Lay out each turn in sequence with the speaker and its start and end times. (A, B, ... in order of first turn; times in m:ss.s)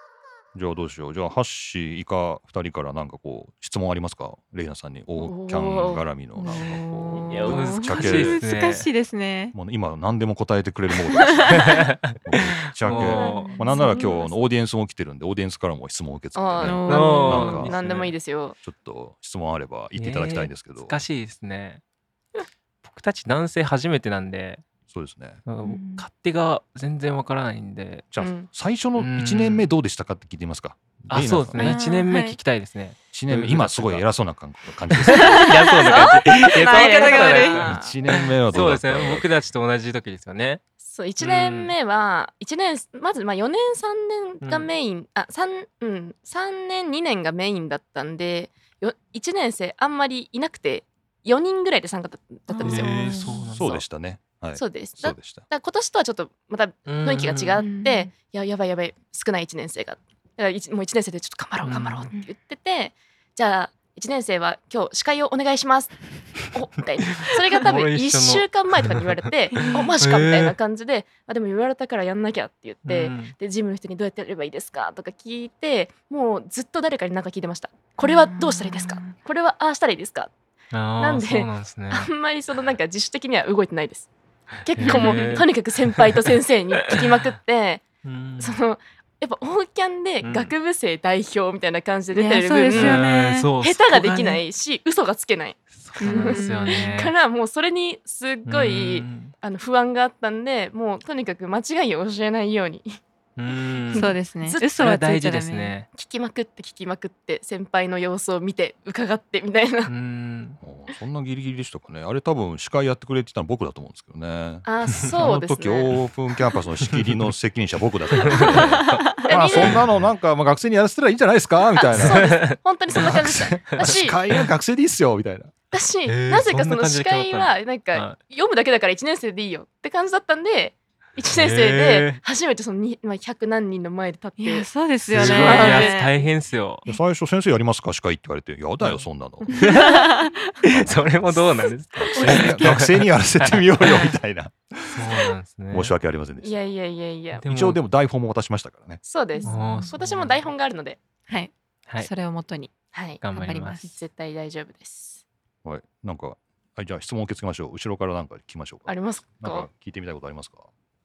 0:00.5-0:08.4 A
0:05.2-0:06.0 B
0:06.4-0:09.5 C
0:07.3-0:08.9 D
0:09.5-0:17.7 A
0:11.1-0:11.7 C
0:11.5-0:13.5 D
0:13.0-0:14.3 C
0:13.2-0:13.5 B
0:16.3-0:18.6 B
0:16.6-0:17.6 C
0:16.8-0:18.1 D
0:18.6-0:21.0 A
0:19.9-0:21.8 D
0:22.8-0:24.6 D
0:24.9-0:25.4 A
0:25.4-0:28.0 D
0:25.6-0:26.0 C
0:28.1-0:31.8 A
0:28.2-0:28.5 B
0:29.0-0:29.7 D
0:31.1-0:34.1 D
0:31.6-0:32.4 C
0:33.1-0:35.4 A
0:34.9-0:40.6 D
0:35.3-0:37.6 C
0:35.4-0:37.9 B
0:37.6-0:39.3 A
0:40.8-0:53.4 B
0:41.2-0:41.7 D
0:44.4-0:44.7 D
0:52.5-0:53.5 C
0:52.6-0:53.8 D
0:53.5-0:55.4 A
0:54.5-1:20.3 B
0:56.8-0:57.6 D
0:57.6-0:58.1 C
1:01.6-1:02.1 D
1:07.2-1:10.5 D
1:09.5-1:09.9 C
1:12.8-1:13.3 D
1:18.0-1:19.1 C
1:20.7-1:22.1 D
1:21.0-1:24.1 B
1:24.6-1:27.8 B
1:24.8-1:26.1 D
1:24.8-1:25.4 C
1:28.0-1:28.6 D
1:28.4-1:33.1 B
1:30.2-1:30.5 D
1:32.1-1:34.3 C
1:32.7-1:34.2 D
1:33.6-1:43.0 B
1:35.8-1:37.1 D
1:36.0-1:36.9 C
1:38.4-1:39.3 D
1:43.4-1:44.1 D
1:43.9-1:44.7 B
1:43.9-1:45.7 C
1:44.8-1:45.9 D
1:45.9-1:49.9 B
1:49.8-1:50.6 D
1:50.6-2:02.4 A
1:54.6-1:55.9 B
1:56.9-1:57.3 D
1:58.2-2:00.0 D
1:59.2-1:59.8 B
2:01.9-2:04.2 B
2:02.0-2:03.1 D
2:02.9-2:05.5 A
2:03.7-2:04.4 D
2:05.7-2:16.0 B
2:06.0-2:08.2 D
2:11.3-2:12.2 D
2:14.4-2:16.1 C
2:15.0-2:16.8 D
2:16.9-2:19.6 A
2:18.8-2:20.1 D
2:19.5-2:20.6 C
2:20.6-2:24.1 D
2:20.7-2:21.4 A
2:21.9-2:26.5 A
2:24.9-2:25.9 D
2:26.4-2:27.4 B
2:27.4-2:27.8 D
2:27.4-2:29.0 A
2:29.0-2:31.0 B
2:29.4-2:29.9 C
2:29.4-2:30.3 D
2:31.3-2:32.7 C
2:32.9-2:33.2 B
2:33.2-2:33.8 D
2:33.3-2:33.9 C
2:33.8-2:35.2 B
2:35.6-2:40.6 A
2:38.9-2:39.7 B